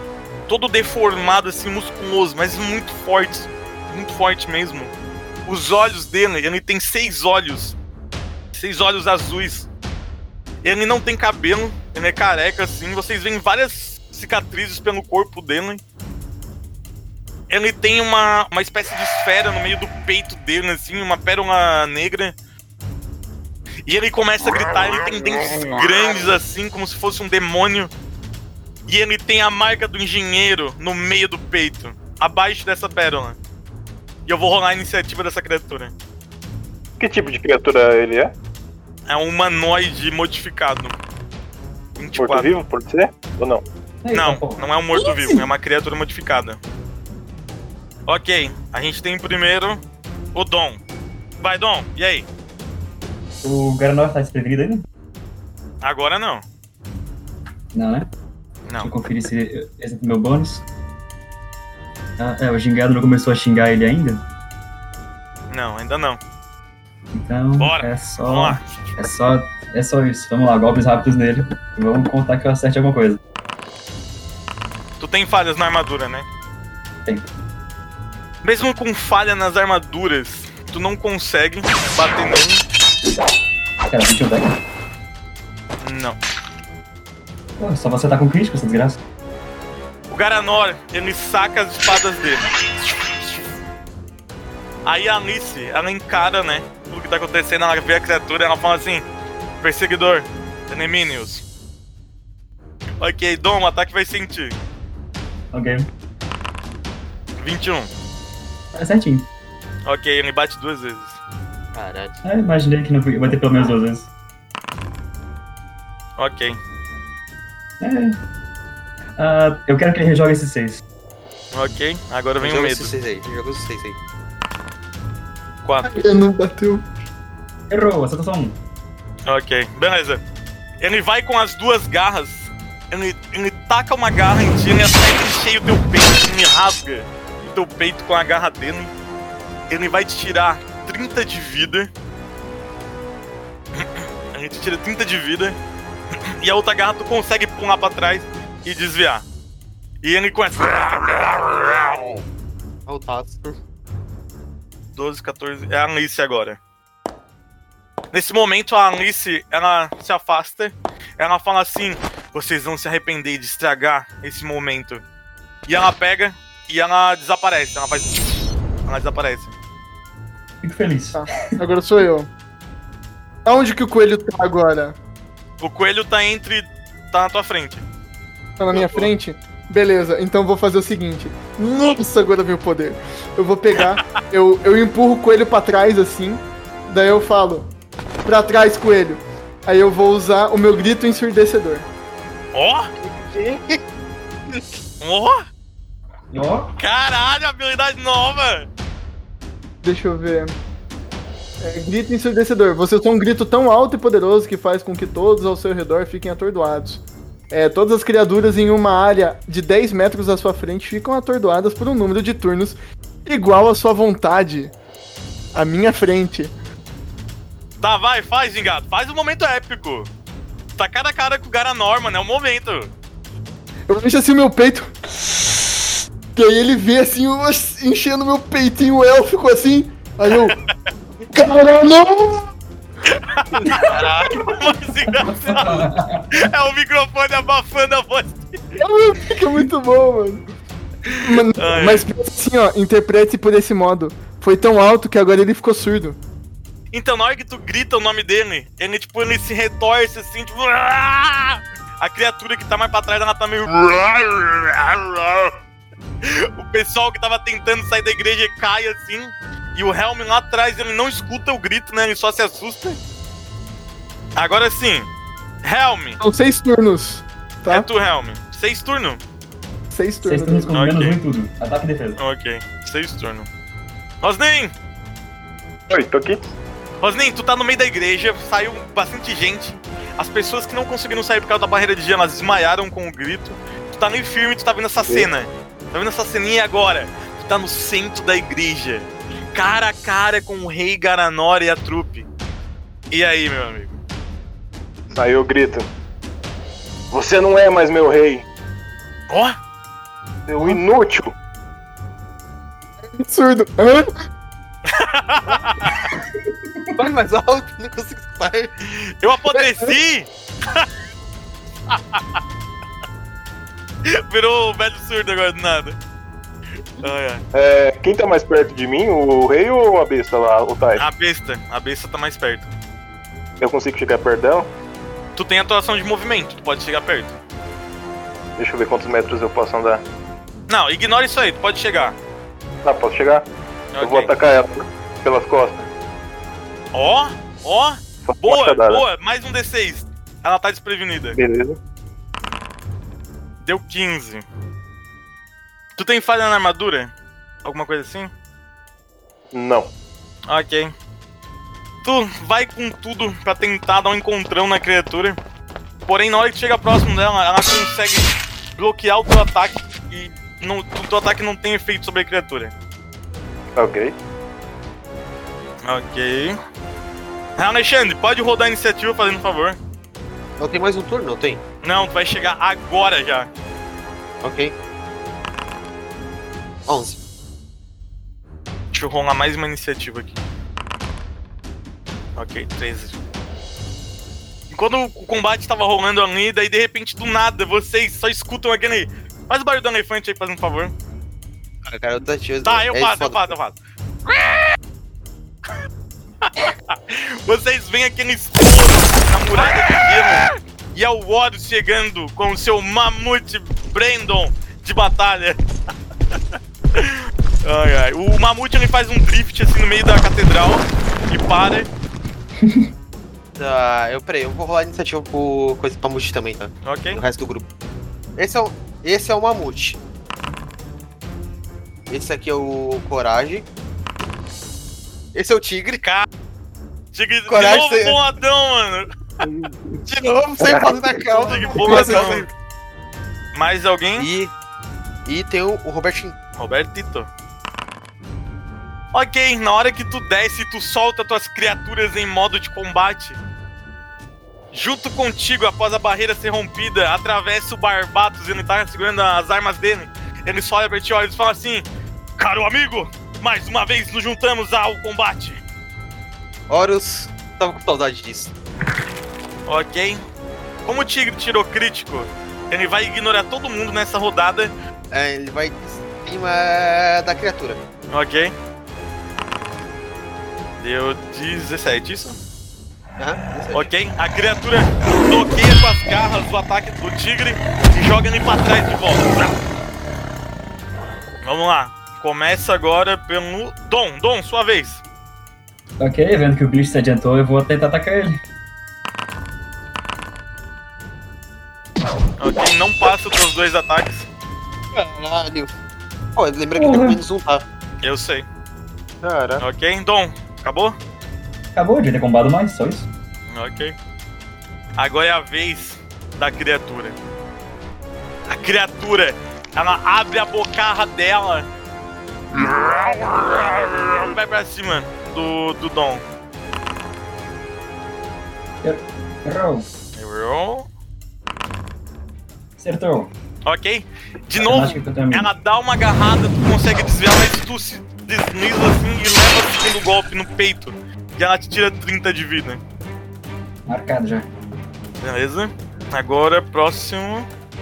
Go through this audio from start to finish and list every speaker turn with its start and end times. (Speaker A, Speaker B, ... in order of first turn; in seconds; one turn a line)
Speaker A: 0.5-4.9
Speaker A: 5.5-7.8
Speaker A: 8.5-9.7
Speaker A: 10.6-15.8
Speaker A: 17.5-22.3
Speaker A: 23.9-27.9
Speaker A: 28.9-33.4
Speaker A: 34.2-35.9
Speaker B: 37.0-38.3
Speaker A: 39.1-41.0
Speaker A: 42.0-42.5
Speaker B: 42.2-43.6
Speaker C: 44.0-45.1
Speaker A: 44.1-46.6
Speaker A: 48.1-49.8
Speaker A: 50.3-50.8
Speaker A: 51.4-52.3
Speaker C: 53.4-54.9
Speaker A: 55.8-56.4
Speaker C: 57.7-58.1
Speaker A: 58.6-58.9
Speaker C: 58.8-60.6
Speaker C: 62.2-64.2
Speaker A: 65.5-66.2
Speaker C: 67.1-73.2
Speaker A: 67.6-68.6
Speaker A: 75.0-76.2
Speaker A: 78.4-82.6
Speaker C: 83.8-84.6
Speaker A: 85.8-86.2
Speaker C: 87.6-89.0
Speaker A: 90.1-92.5
Speaker A: 94.8-99.0
Speaker A: 99.6-101.4
Speaker A: 103.0-104.6
Speaker C: 105.5-105.9
Speaker A: 107.4-107.9
Speaker C: 108.7-109.3
Speaker A: 109.8-111.2
Speaker D: 111.7-112.2
Speaker C: 112.2-114.1
Speaker A: 116.2-116.6
Speaker C: 117.8-118.2
Speaker C: 119.2-120.8
Speaker A: 121.5-122.9
Speaker D: 122.4-124.0
Speaker A: 125.6-125.9
Speaker E: 125.8-126.8
Speaker C: 127.7-128.6
Speaker A: 129.2-130.2
Speaker A: 130.8-138.9
Speaker A: 139.7-141.9
Speaker A: 143.8-145.6
Speaker A: 146.4-149.2
Speaker A: 150.0-151.4
Speaker D: 152.9-153.5
Speaker A: 154.9-156.6
Speaker A: 158.1-165.0
Speaker A: 165.7-168.2
Speaker A: 168.9-169.5
Speaker C: 170.6-171.2
Speaker E: 171.1-172.3
Speaker E: 173.4-175.0
Speaker A: 175.6-177.8
Speaker E: 178.6-187.7
Speaker E: 188.2-191.9
Speaker A: 192.5-192.9
Speaker D: 193.0-193.8
Speaker A: 195.0-195.4
Speaker C: 196.3-196.7
Speaker A: 196.8-198.7
Speaker E: 199.8-200.6
Speaker E: 201.6-214.7
Speaker E: 215.5-216.5
Speaker A: 217.8-220.1
Speaker A: 220.8-222.9
Speaker E: 223.9-230.6
Speaker E: 231.3-232.5
Speaker A: 233.1-238.8
Speaker C: 235.1-236.4
Speaker E: 238.8-240.4
Speaker A: 241.1-242.0
Speaker E: 241.2-246.2
Speaker A: 246.9-255.5
Speaker A: 256.2-263.0
Speaker A: 264.4-265.1
Speaker A: 265.6-266.2
Speaker E: 266.2-267.9
Speaker A: 267.6-269.2
Speaker E: 269.9-270.7
Speaker C: 270.2-272.2
Speaker A: 270.7-271.2
Speaker A: 272.2-273.5
Speaker A: 274.2-274.7
Speaker B: 275.9-276.5
Speaker A: 277.0-292.3
Speaker B: 285.0-285.3
Speaker A: 293.1-294.0
Speaker B: 295.1-295.9
Speaker B: 297.1-298.4
Speaker A: 299.3-299.6
Speaker B: 300.5-301.3
Speaker E: 303.0-304.1
Speaker A: 304.9-306.0
Speaker D: 306.9-308.7
Speaker A: 308.9-310.9
Speaker E: 309.5-309.9
Speaker A: 311.9-312.4
Speaker A: 314.1-316.0
Speaker A: 317.0-317.4
Speaker B: 317.5-321.0
Speaker A: 320.9-322.7
Speaker B: 323.6-324.7
Speaker A: 325.4-327.3
Speaker B: 328.6-330.0
Speaker A: 330.7-332.1
Speaker B: 332.8-333.4
Speaker A: 333.9-334.3
Speaker B: 334.0-335.9
Speaker A: 336.9-341.4
Speaker B: 338.2-339.0
Speaker B: 341.4-341.8
Speaker A: 343.6-344.4
Speaker A: 345.9-347.1
Speaker A: 347.6-348.3
Speaker B: 349.5-349.9
Speaker A: 350.5-350.9
Speaker A: 352.0-355.4
Speaker A: 356.1-362.7
Speaker B: 363.8-364.1
Speaker A: 365.8-366.6
Speaker A: 367.6-369.8
Speaker D: 370.6-371.6
Speaker A: 371.8-373.5
Speaker D: 374.4-374.7
Speaker D: 376.9-377.2
Speaker A: 378.9-380.4
Speaker A: 382.4-383.2
Speaker A: 384.7-390.9
Speaker D: 391.8-393.5
Speaker A: 392.6-393.8
Speaker A: 396.5-405.6
Speaker A: 406.3-411.9
Speaker D: 413.6-417.6
Speaker A: 416.8-417.2
Speaker D: 418.4-420.0
Speaker D: 422.1-423.7
Speaker D: 425.3-426.0
Speaker A: 427.1-429.1
Speaker D: 427.5-428.2
Speaker D: 430.1-432.5
Speaker B: 430.6-431.0
Speaker A: 431.4-432.4
Speaker E: 431.8-432.4
Speaker A: 433.5-434.3
Speaker D: 434.2-434.5
Speaker D: 435.2-436.4
Speaker A: 436.6-437.3
Speaker A: 439.1-443.4
Speaker A: 444.7-451.9
Speaker A: 452.4-455.6
Speaker D: 456.7-458.5
Speaker A: 459.6-460.2
Speaker A: 460.9-464.7
Speaker D: 465.1-467.8
Speaker A: 468.1-468.5
Speaker A: 470.8-472.4
Speaker D: 473.2-473.9
Speaker A: 473.7-479.5
Speaker A: 481.4-485.0
Speaker C: 486.0-488.4
Speaker A: 492.4-494.3
Speaker D: 494.9-495.7
Speaker D: 496.4-497.6
Speaker C: 496.7-497.2
Speaker A: 498.0-498.5
Speaker D: 499.2-499.6
Speaker A: 499.6-500.9
Speaker C: 501.7-503.1
Speaker A: 503.5-503.9
Speaker A: 505.0-507.2
Speaker A: 508.5-511.7
Speaker A: 512.9-516.2
Speaker C: 518.8-519.9
Speaker A: 520.1-520.9
Speaker C: 522.8-523.3
Speaker A: 523.6-532.8
Speaker C: 524.6-525.5
Speaker C: 533.9-534.5
Speaker A: 535.2-537.5